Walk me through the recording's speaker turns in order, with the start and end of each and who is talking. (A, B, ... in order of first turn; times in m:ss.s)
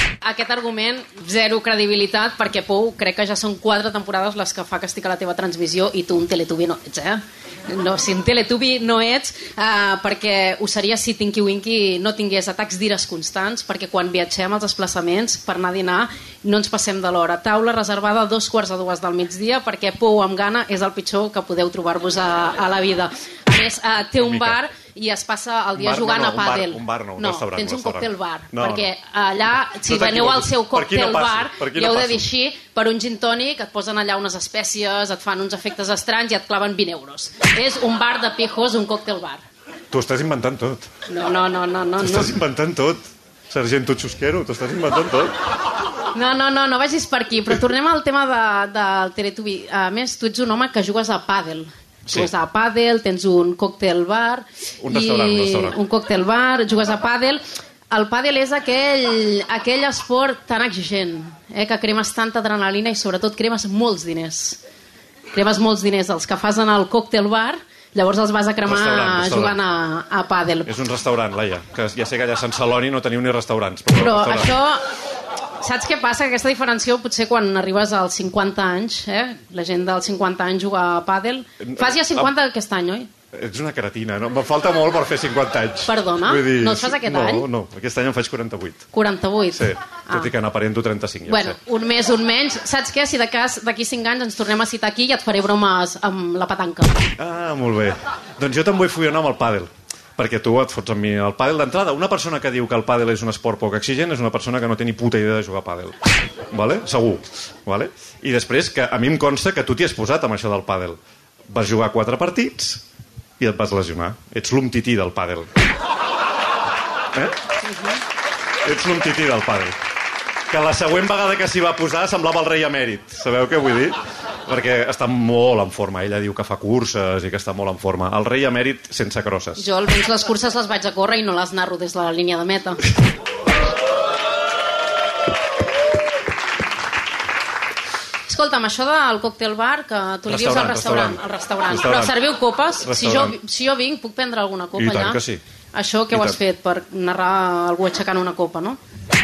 0:00.2-0:39.4 A
0:24.2-0:24.6 B
0:25.8-0:28.9 B
0:29.8-0:32.3 B
0:39.9-0:40.9 B
0:41.1-0:42.4 A
0:42.0-0:45.3 B
0:46.1-1:04.6 A
0:54.8-0:55.8 B
1:05.3-1:10.7 A
1:08.6-1:09.6 B
1:10.7-1:14.5 B
1:13.9-1:14.8 A
1:15.6-1:23.1 A
1:21.6-1:22.3 B
1:23.3-1:28.8 B
1:25.9-1:27.5 A
1:28.9-1:30.3 A
1:29.5-1:31.6 B
1:31.3-1:37.0 A
1:37.2-1:46.0 B
1:46.5-1:51.0 B
1:51.5-1:52.8 B
1:53.4-1:55.5 B
1:58.6-1:59.8 B
2:00.5-2:09.6 B
2:09.6-2:12.9 A
2:18.3-2:25.2 A
2:20.3-2:22.1 B
2:22.8-2:23.4 B
2:24.8-2:25.4 B
2:25.7-2:28.8 A
2:26.1-2:26.4 B